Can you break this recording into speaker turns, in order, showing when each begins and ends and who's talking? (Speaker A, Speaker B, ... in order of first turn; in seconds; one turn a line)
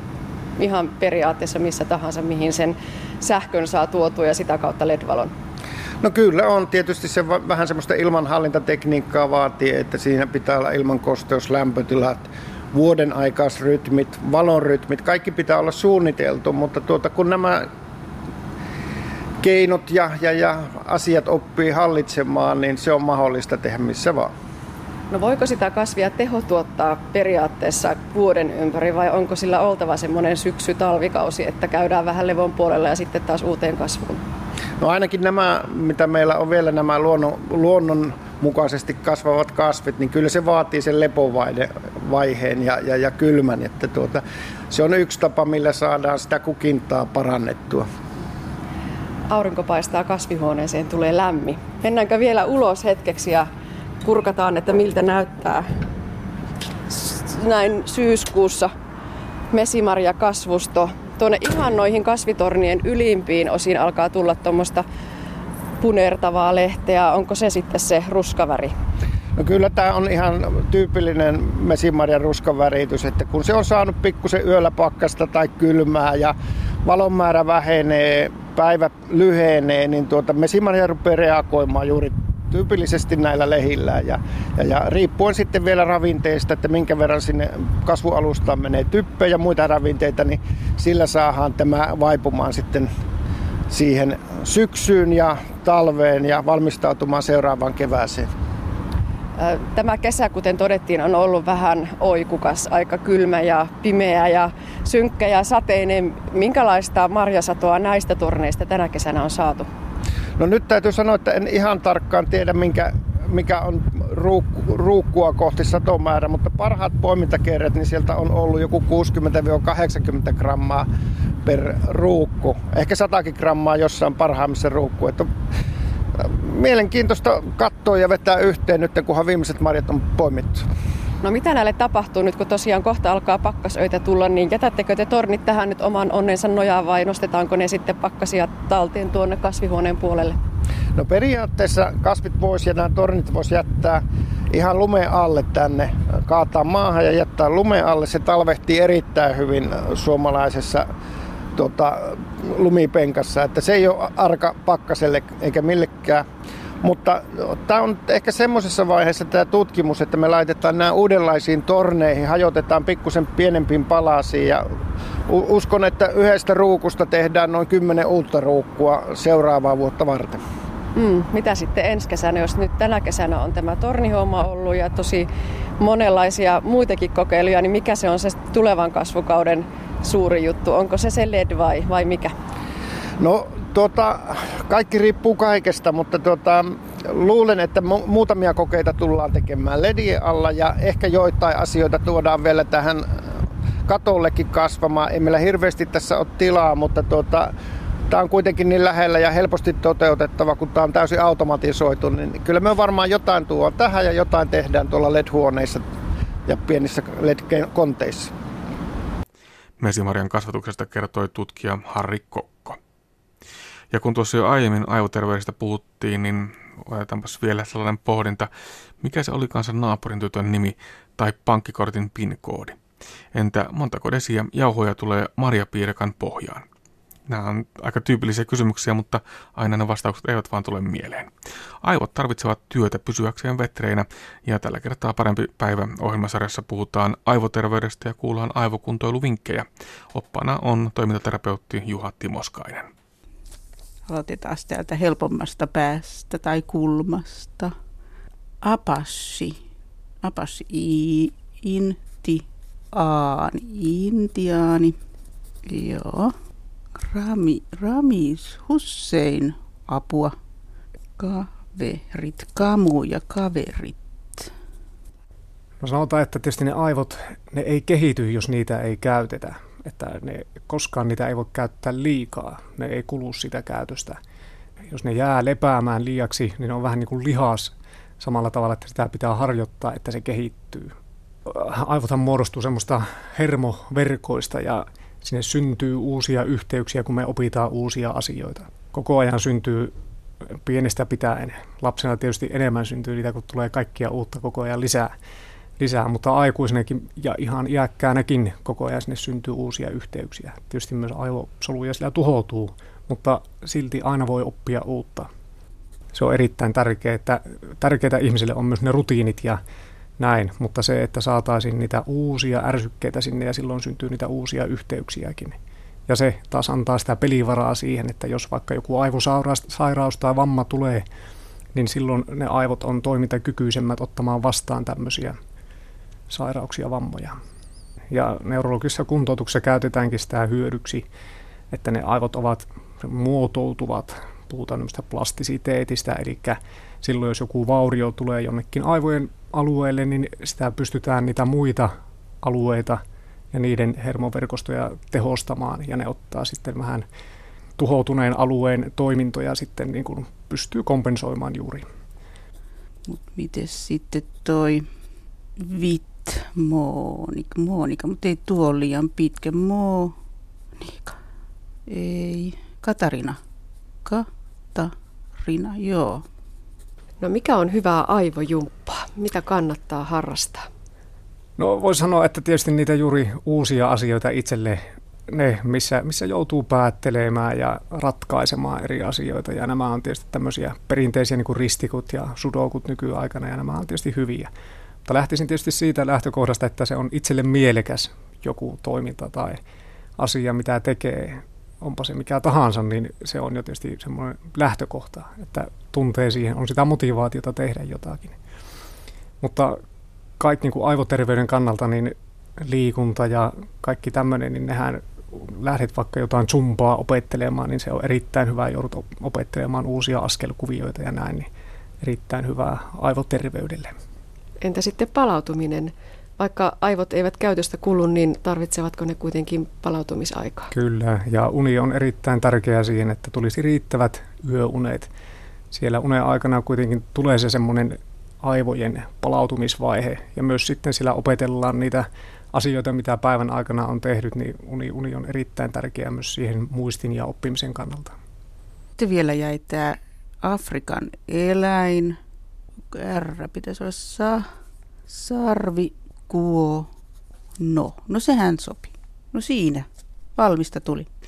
Speaker A: 0.6-5.3
Speaker B: 6.0-17.7
Speaker B: 19.4-24.3
Speaker A: 25.1-34.2
Speaker B: 34.8-47.9
Speaker A: 49.3-53.5
Speaker A: 54.0-55.7
Speaker A: 56.9-58.7
Speaker A: 59.5-64.8
Speaker A: 65.8-68.7
Speaker B: 69.4-92.9
Speaker B: 93.7-98.3
Speaker A: 99.4-109.7
Speaker B: 110.4-120.9
Speaker B: 121.4-125.3
Speaker B: 126.2-130.7
Speaker A: 131.2-140.4
Speaker B: 140.9-150.9
Speaker B: 151.6-156.3
Speaker B: 156.8-164.6
Speaker B: 165.3-170.4
Speaker A: 170.9-175.3
Speaker A: 175.8-182.3
Speaker B: 183.2-193.1
Speaker B: 193.9-197.5
Speaker B: 198.1-205.8
Speaker B: 206.4-208.3
Speaker C: 209.8-212.8
Speaker C: 213.9-218.5
Speaker C: 219.0-222.8
Speaker C: 223.3-226.6
Speaker C: 227.3-231.3
Speaker C: 231.8-242.9
Speaker D: 244.1-247.7
Speaker D: 248.6-249.6
Speaker D: 250.2-252.4
Speaker D: 252.9-254.9
Speaker D: 255.7-256.3
Speaker D: 257.0-260.4
Speaker D: 261.2-264.5
Speaker E: 265.8-274.2
Speaker E: 274.9-280.9
Speaker E: 281.5-289.9
Speaker E: 290.6-295.1
Speaker E: 295.8-305.3
Speaker E: 306.1-309.6
Speaker E: 310.2-315.6
Speaker E: 316.1-321.1
Speaker E: 321.7-325.4
Speaker E: 326.3-327.4
Speaker E: 328.1-331.1
Speaker E: 331.7-343.0
Speaker E: 343.5-347.1
Speaker E: 347.8-351.8
Speaker D: 353.1-354.8
Speaker D: 355.6-360.1
Speaker D: 360.8-361.1
Speaker D: 361.9-363.4
Speaker D: 364.1-364.9
Speaker D: 365.4-366.2
Speaker A: 367.2-370.7
Speaker E: 371.6-384.5
Speaker E: 385.1-389.6
Speaker E: 390.2-398.4
Speaker E: 399.4-399.8
Speaker E: 400.4-402.1
Speaker E: 402.7-405.0
Speaker E: 405.6-411.5
Speaker E: 412.0-413.9
Speaker A: 414.6-420.7
Speaker E: 420.7-425.1
Speaker E: 425.7-438.1
Speaker D: 439.0-442.2
Speaker D: 442.9-444.4
Speaker D: 445.1-446.9
Speaker D: 447.6-451.1